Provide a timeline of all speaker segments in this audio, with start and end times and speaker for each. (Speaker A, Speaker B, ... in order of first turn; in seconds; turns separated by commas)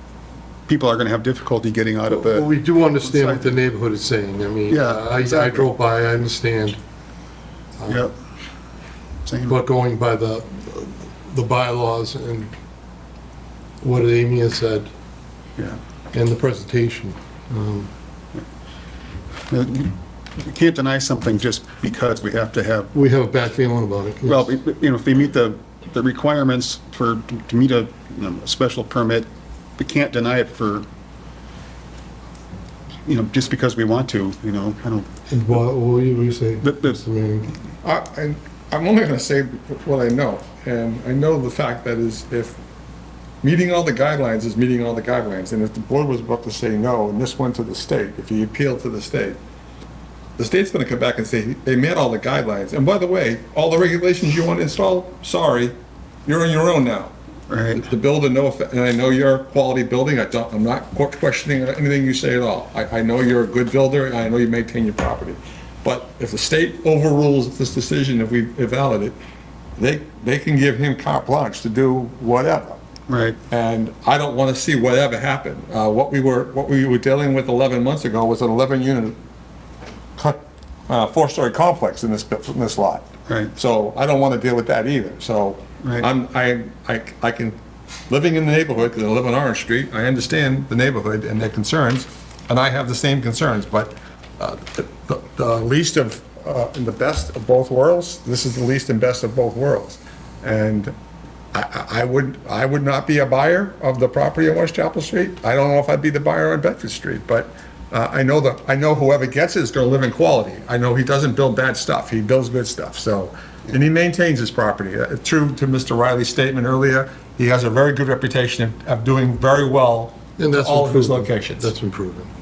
Speaker A: 0.7-2.5, Speaker B: 2.1-6.8, Speaker A: 3.0-3.6, Speaker A: 4.7-5.7, Speaker B: 7.8-8.1, Speaker A: 7.9-8.1, Speaker A: 9.2-9.6, Speaker B: 9.5-12.5, Speaker B: 13.8-14.9, Speaker B: 16.1-17.9, Speaker A: 19.5-22.9, Speaker B: 22.9-24.5, Speaker A: 24.3-30.9, Speaker A: 33.1-35.1, Speaker B: 35.3-37.5, Speaker A: 36.6-37.0, Speaker C: 37.8-42.6, Speaker C: 43.4-49.4, Speaker C: 50.4-55.7, Speaker C: 56.3-57.1, Speaker A: 57.5-57.9, Speaker C: 57.7-69.2, Speaker C: 69.8-72.8, Speaker A: 73.1-73.4, Speaker C: 73.5-79.2, Speaker C: 80.2-87.6, Speaker A: 83.3-83.5, Speaker A: 85.8-86.1, Speaker C: 88.1-101.0, Speaker C: 101.5-121.7, Speaker B: 120.4-122.3